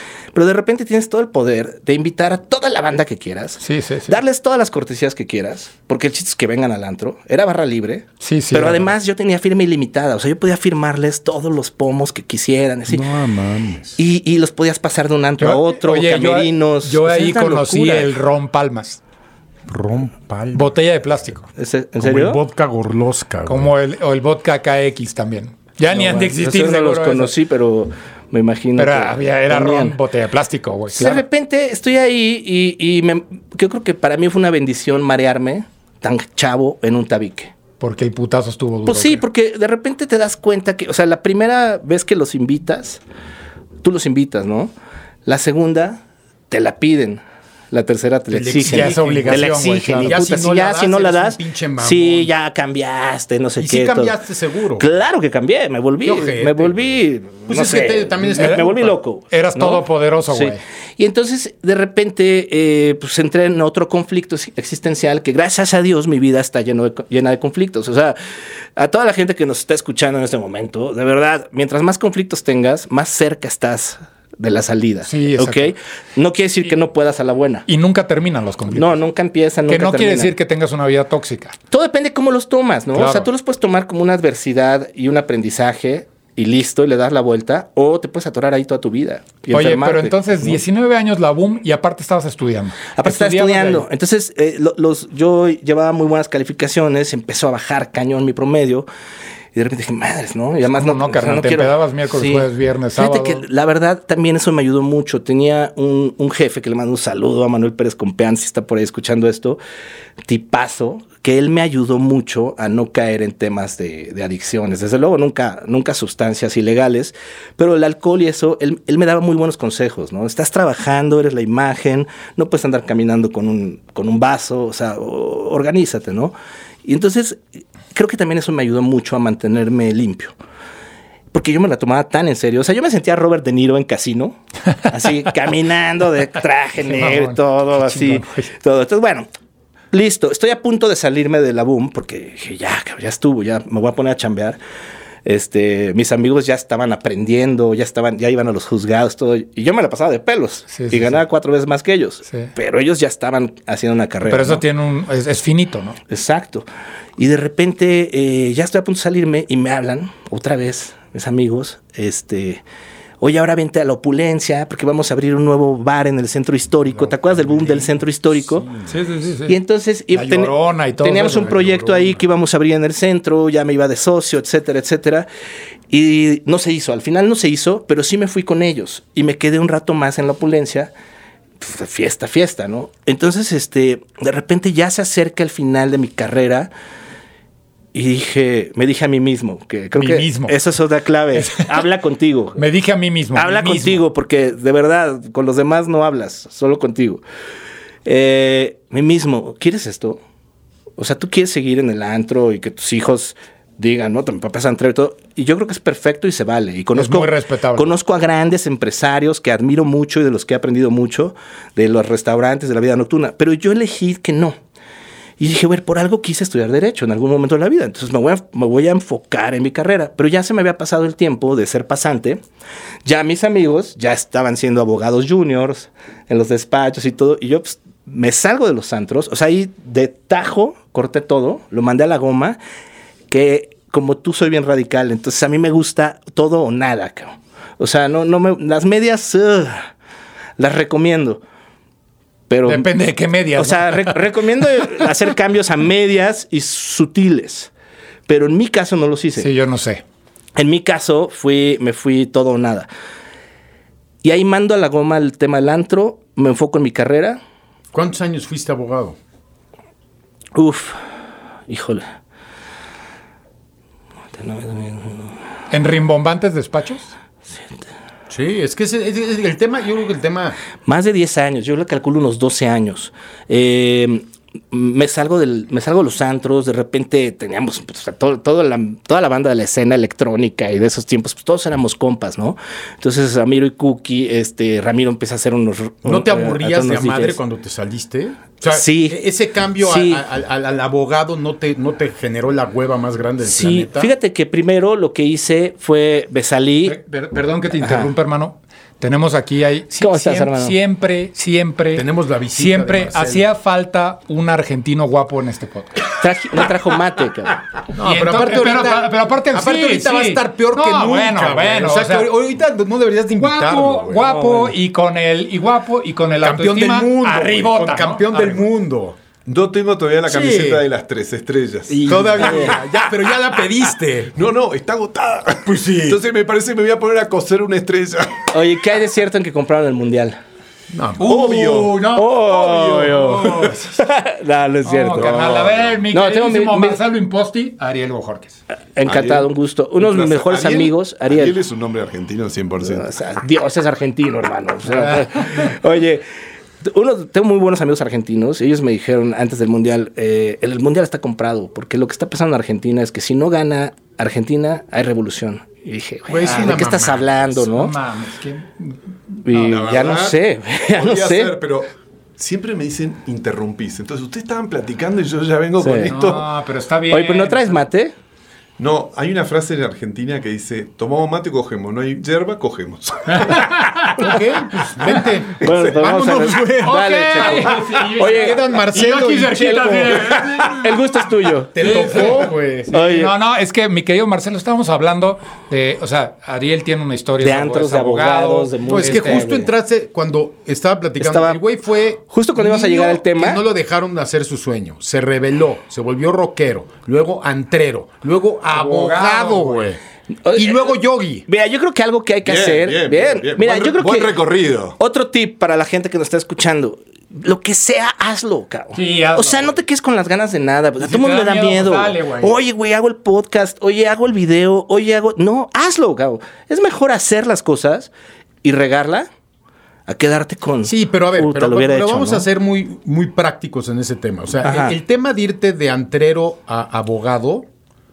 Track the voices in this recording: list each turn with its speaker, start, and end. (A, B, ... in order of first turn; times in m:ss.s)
0:00.3-0:13.1 A
0:03.6-0:04.2 B
0:08.2-0:08.9 B
0:12.9-0:14.0 C
0:14.0-0:18.1 A
0:15.4-0:19.0 B
0:19.7-0:20.7 C
0:20.5-0:21.5 B
0:21.6-0:22.4 A
0:22.0-0:23.7 C
0:23.4-0:27.3 B
0:25.9-0:30.0 A
0:28.8-0:31.2 B
0:30.9-0:37.5 A
0:37.8-0:39.2 B
0:38.8-0:43.0 A
0:43.8-0:44.7 A
0:45.2-0:54.2 A
0:48.3-0:52.3 C
0:48.6-0:50.2 B
0:53.6-0:54.9 C
0:54.8-1:08.2 A
0:56.0-0:56.9 C
0:57.5-0:58.9 C
0:58.4-0:58.7 B
0:59.3-1:00.6 B
1:08.8-1:17.7 A
1:15.0-1:15.7 B
1:17.7-1:19.0 B
1:18.7-1:20.3 A
1:19.7-1:21.6 B
1:21.7-1:30.6 A
1:22.9-1:23.3 B
1:29.5-1:33.8 B
1:32.9-1:38.9 A
1:39.5-1:49.6 A
1:40.6-1:43.4 B
1:50.2-2:07.4 A
2:07.9-2:10.3 A
2:11.3-2:19.3 A
2:16.8-2:18.5 B
2:19.9-2:24.6 A
2:25.2-2:34.6 A
2:30.7-2:31.2 B
2:34.3-2:36.0 B
2:36.1-2:36.6 A
2:37.2-2:42.6 A
2:43.2-2:48.7 A
2:47.3-2:47.9 C
2:48.8-2:49.6 B
2:49.5-2:55.3 A
2:50.1-2:51.7 B
2:51.6-2:52.1 C
2:55.9-3:00.9 A
3:01.6-3:06.7 A
3:07.9-3:12.6 A
3:09.9-3:10.6 B
3:11.3-3:11.8 B
3:12.6-3:14.0 B
3:13.3-3:17.2 A
3:18.0-3:20.2 A
3:21.0-3:34.6 A
3:27.0-3:27.9 B
3:35.4-3:42.4 A
3:43.0-3:52.6 A
3:53.3-3:59.9 A
4:00.6-4:01.4 A
4:02.5-4:02.9 A
4:02.6-4:04.2 B
4:03.6-4:07.7 A
4:08.3-4:09.5 A
4:09.4-4:10.0 B
4:10.6-4:12.9 A
4:14.2-4:17.4 A
4:17.9-4:19.2 C
4:20.5-4:21.0 A
4:21.7-4:22.0 A
4:24.4-4:25.3 A
4:25.7-4:27.1 B
4:28.3-4:30.6 C
4:30.8-4:47.4 A
4:46.0-4:54.1 C
4:48.6-4:49.2 A
4:49.8-4:50.2 A
4:53.4-4:57.0 A
4:56.8-5:06.1 B
4:57.8-4:58.1 A
5:00.0-5:00.8 A
5:01.9-5:03.5 C
5:06.1-5:07.6 A
5:07.9-5:14.2 C
5:08.0-5:12.3 B
5:13.4-5:18.5 B
5:14.2-5:14.7 A
5:16.4-5:19.2 C
5:19.4-5:22.7 D
5:20.3-5:20.8 C
5:21.9-5:24.3 C
5:22.4-5:22.8 A
5:24.3-5:28.5 D
5:25.6-5:26.2 C
5:28.5-5:30.4 A
5:30.9-5:31.3 C
5:31.2-5:32.3 B
5:31.2-5:33.7 D
5:32.1-5:37.0 A
5:33.2-5:33.9 B
5:34.8-5:38.6 B
5:35.1-5:35.9 D
5:39.0-5:41.6 A
5:39.0-5:43.1 D
5:42.8-5:46.2 A
5:45.0-5:45.6 B
5:46.8-5:57.9 A
5:56.3-5:57.3 C
5:57.5-5:59.0 B
5:59.4-6:01.5 A
5:59.5-6:00.4 D
6:00.9-6:06.5 D
6:05.8-6:06.1 A
6:06.0-6:07.8 B
6:07.1-6:08.1 A
6:08.8-6:13.8 D
6:13.3-6:15.3 B
6:14.2-6:20.5 C
6:15.6-6:18.6 A
6:16.8-6:20.9 B
6:20.0-6:22.4 A
6:21.7-6:22.9 C
6:21.8-6:29.4 B
6:22.9-6:23.3 A
6:27.4-6:29.7 A
6:28.8-6:40.0 C
6:31.2-6:31.6 A
6:32.3-6:33.6 A
6:38.7-6:39.9 B
6:40.4-6:44.4 A
6:40.5-6:41.4 C
6:42.4-6:45.0 D
6:45.0-6:58.1 A
6:48.9-6:49.7 B
6:51.0-6:52.5 B
6:58.6-6:59.3 A
7:00.1-7:02.4 A
7:00.8-7:07.7 C
7:04.6-7:05.0 A